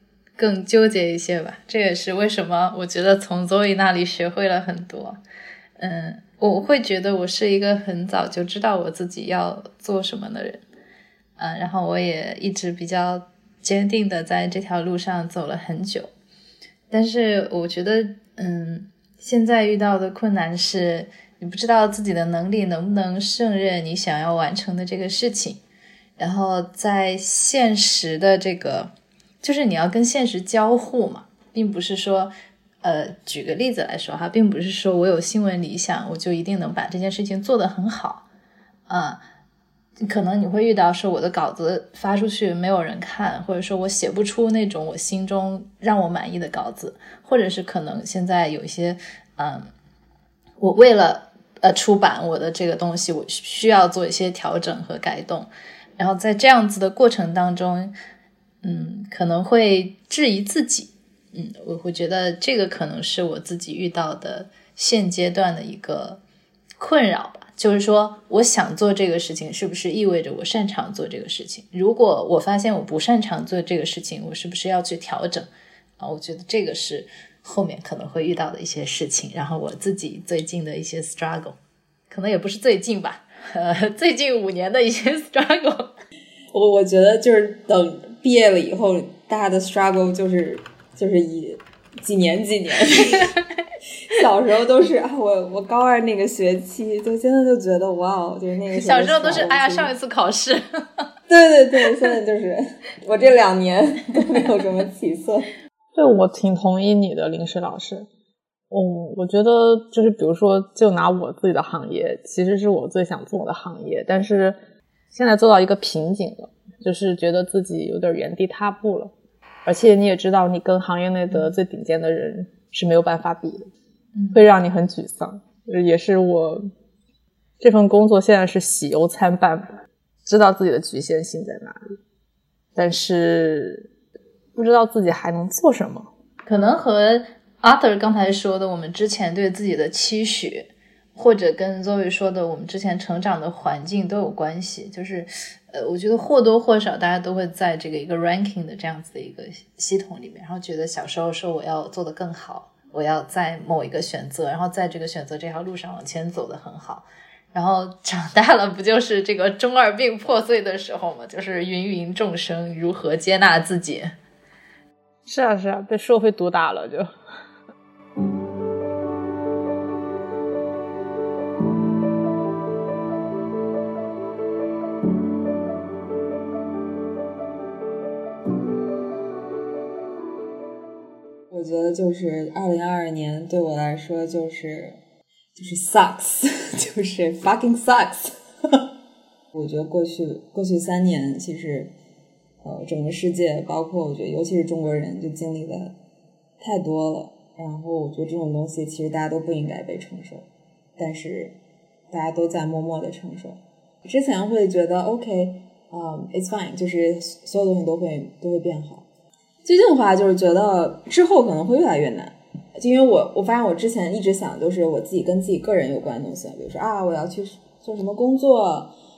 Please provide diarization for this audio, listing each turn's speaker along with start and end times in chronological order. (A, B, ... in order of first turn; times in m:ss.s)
0:00.4-0:05.2 A
0:05.8-0:10.6 A
0:11.4-0:16.1 A
0:16.9-0:25.6 A
0:26.2-0:28.9 A
0:29.4-0:32.3 A
0:32.8-0:38.2 A
0:38.9-0:39.2 A
0:40.0-0:49.7 A
0:50.6-0:58.0 A
0:58.6-1:06.2 A
1:06.8-1:21.6 A
1:22.1-1:25.9 A
1:26.5-1:33.3 B
1:34.1-1:39.9 B
1:38.7-1:40.8 A
1:41.3-1:45.5 B
1:46.0-1:48.1 C
1:48.7-1:54.6 C
1:55.1-1:59.1 C
1:59.6-2:03.7 C
2:04.2-2:04.4 A
2:04.3-2:06.7 C
2:07.6-2:09.7 C
2:10.2-2:12.0 C
2:12.8-2:13.9 C
2:14.6-2:16.1 C
2:16.5-2:44.1 A
2:45.3-2:47.1 C
3:01.5-3:05.0 B
3:05.6-3:08.8 B
3:09.5-3:11.9 B
3:12.6-3:16.0 B
3:16.6-3:21.6 B
3:22.1-3:29.1 B
3:29.6-3:38.9 B